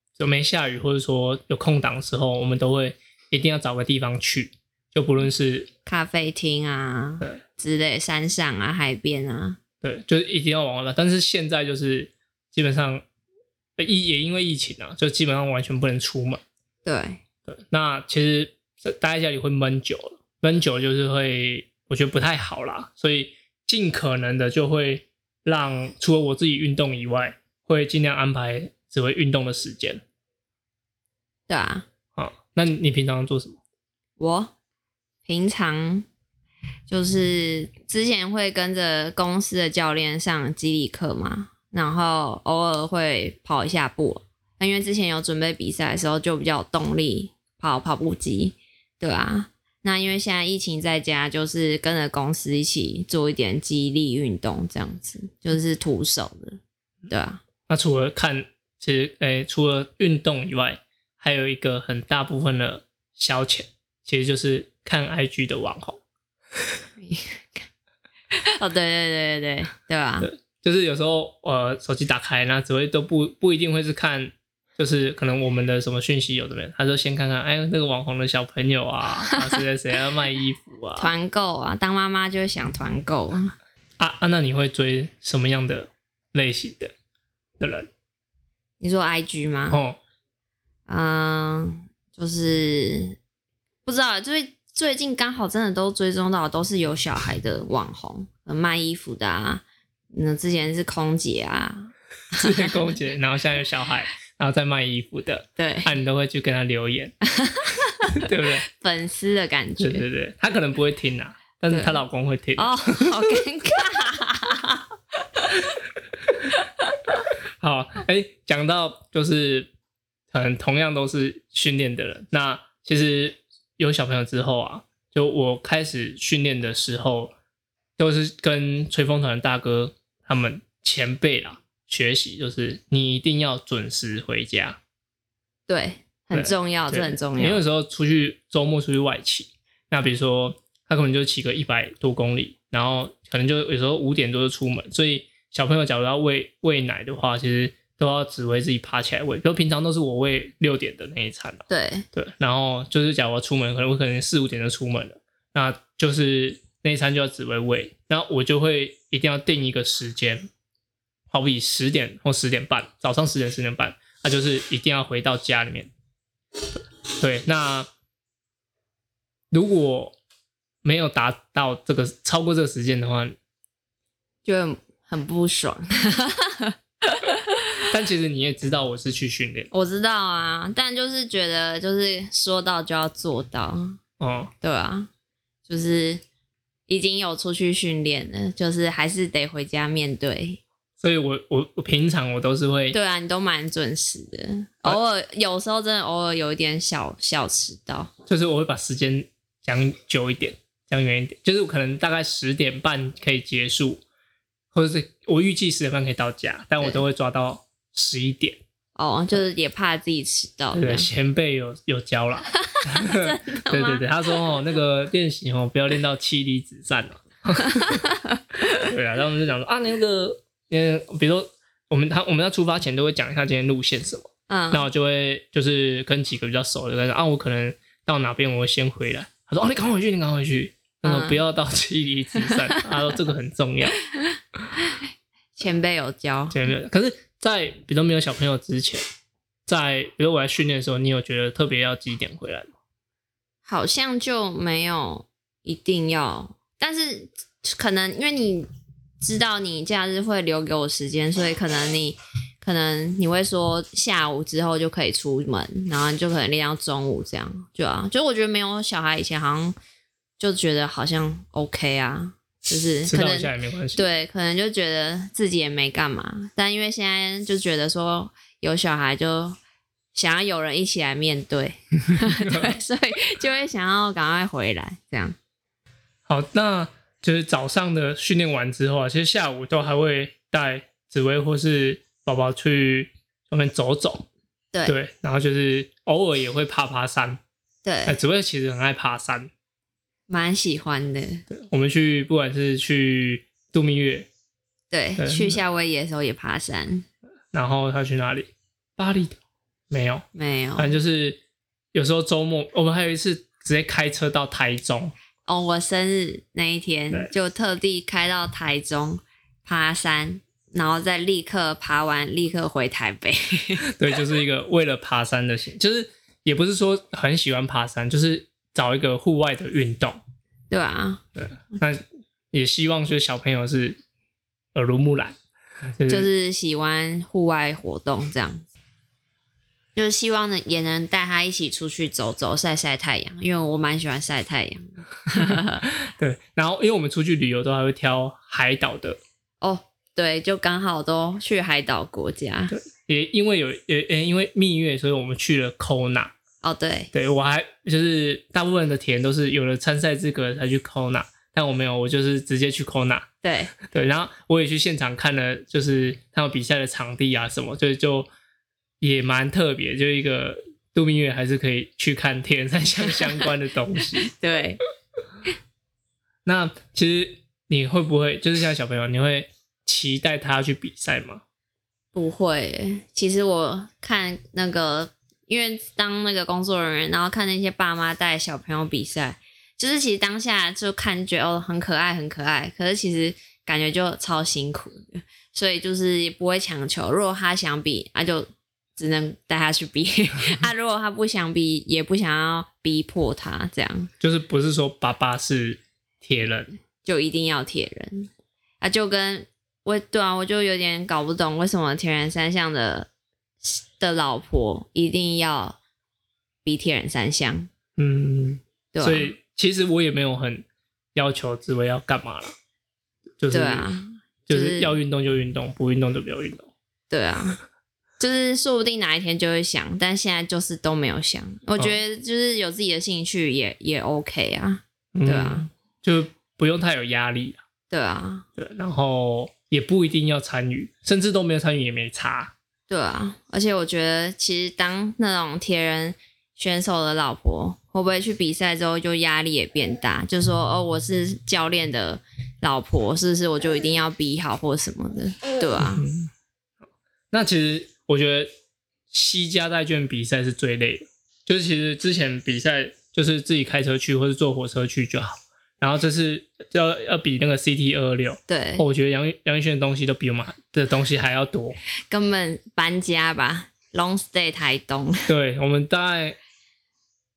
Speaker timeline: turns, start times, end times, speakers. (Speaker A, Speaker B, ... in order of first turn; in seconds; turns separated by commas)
Speaker A: 0.2-5.7, Speaker B: 5.8-9.6, Speaker A: 9.8-13.0, Speaker A: 13.8-16.4, Speaker B: 16.8-17.2, Speaker A: 17.5-30.0, Speaker B: 31.5-31.8, Speaker A: 32.1-33.6, Speaker B: 34.2-34.5, Speaker B: 35.2-36.0, Speaker B: 36.9-57.4, Speaker A: 57.7-66.0, Speaker B: 67.0-67.7, Speaker B: 68.3-70.3, Speaker A: 70.2-81.1, Speaker B: 81.0-83.5, Speaker A: 84.0-86.9, Speaker A: 87.6-87.9, Speaker B: 88.8-89.8, Speaker A: 89.7-90.0, Speaker B: 90.9-93.2, Speaker B: 93.8-102.9, Speaker A: 102.3-107.1, Speaker B: 105.6-105.9, Speaker B: 107.3-110.0, Speaker A: 108.1-108.6, Speaker A: 109.8-113.3, Speaker B: 111.7-112.0, Speaker B: 112.6-115.6, Speaker A: 116.2-116.5, Speaker B: 116.5-117.1, Speaker A: 117.6-119.7, Speaker A: 120.3-127.3, Speaker A: 128.0-134.8, Speaker B: 135.7-137.6, Speaker A: 136.3-160.5, Speaker B: 151.7-152.1, Speaker A: 161.3-165.9, Speaker A: 166.8-167.9, Speaker A: 169.5-170.2, Speaker A: 170.8-173.3, Speaker B: 174.4-177.5, Speaker A: 177.9-179.7, Speaker B: 179.7-184.0, Speaker A: 184.2-184.5, Speaker B: 184.6-185.1, Speaker B: 185.7-186.2, Speaker B: 186.9-190.6, Speaker A: 191.0-192.9, Speaker B: 192.9-198.1, Speaker A: 198.3-204.0, Speaker A: 204.7-208.6, Speaker B: 208.9-211.1, Speaker A: 210.7-218.0, Speaker B: 212.6-214.4, Speaker B: 217.6-218.8, Speaker A: 218.8-234.0, Speaker B: 224.5-224.8, Speaker B: 231.0-231.4, Speaker B: 232.4-232.9, Speaker B: 234.8-235.0, Speaker B: 235.6-236.6, Speaker A: 236.5-239.0, Speaker A: 239.7-242.7, Speaker B: 243.7-248.7, Speaker B: 249.2-259.8, Speaker B: 260.4-269.6, Speaker A: 263.1-264.0, Speaker B: 270.1-275.4, Speaker A: 272.2-272.7, Speaker A: 276.2-284.2, Speaker A: 284.9-287.4, Speaker B: 287.8-288.2, Speaker A: 288.1-289.5, Speaker B: 290.3-291.4, Speaker A: 291.5-294.3, Speaker B: 294.9-297.1, Speaker A: 295.2-295.6, Speaker A: 297.5-299.4, Speaker A: 299.9-300.2, Speaker B: 300.3-300.9, Speaker A: 300.8-301.4, Speaker A: 301.9-305.1, Speaker B: 305.4-314.2, Speaker A: 313.8-320.2, Speaker B: 320.7-321.2, Speaker A: 321.4-324.0, Speaker A: 324.7-325.4, Speaker A: 326.0-326.3, Speaker B: 326.1-328.7, Speaker B: 329.9-335.8, Speaker A: 335.4-339.2, Speaker B: 339.6-342.7, Speaker A: 342.7-346.3, Speaker B: 346.6-347.1, Speaker A: 347.1-353.3, Speaker B: 353.4-353.7, Speaker A: 353.8-358.3, Speaker A: 359.0-364.3, Speaker B: 363.1-363.4, Speaker B: 364.0-364.8, Speaker A: 366.4-371.4, Speaker B: 372.1-394.1, Speaker A: 394.2-396.7, Speaker B: 397.0-403.1, Speaker B: 403.6-405.8, Speaker B: 406.6-407.7, Speaker A: 408.0-412.5, Speaker B: 408.9-409.3, Speaker A: 413.4-413.9, Speaker B: 413.5-414.9, Speaker A: 414.5-416.7, Speaker B: 417.1-417.6, Speaker B: 418.2-425.7, Speaker A: 425.1-427.6, Speaker B: 427.9-428.4, Speaker A: 428.6-432.5, Speaker B: 432.9-446.1, Speaker A: 445.8-446.3, Speaker A: 447.3-448.5, Speaker A: 449.1-461.8, Speaker B: 458.5-458.9, Speaker B: 462.1-465.3, Speaker A: 465.3-466.4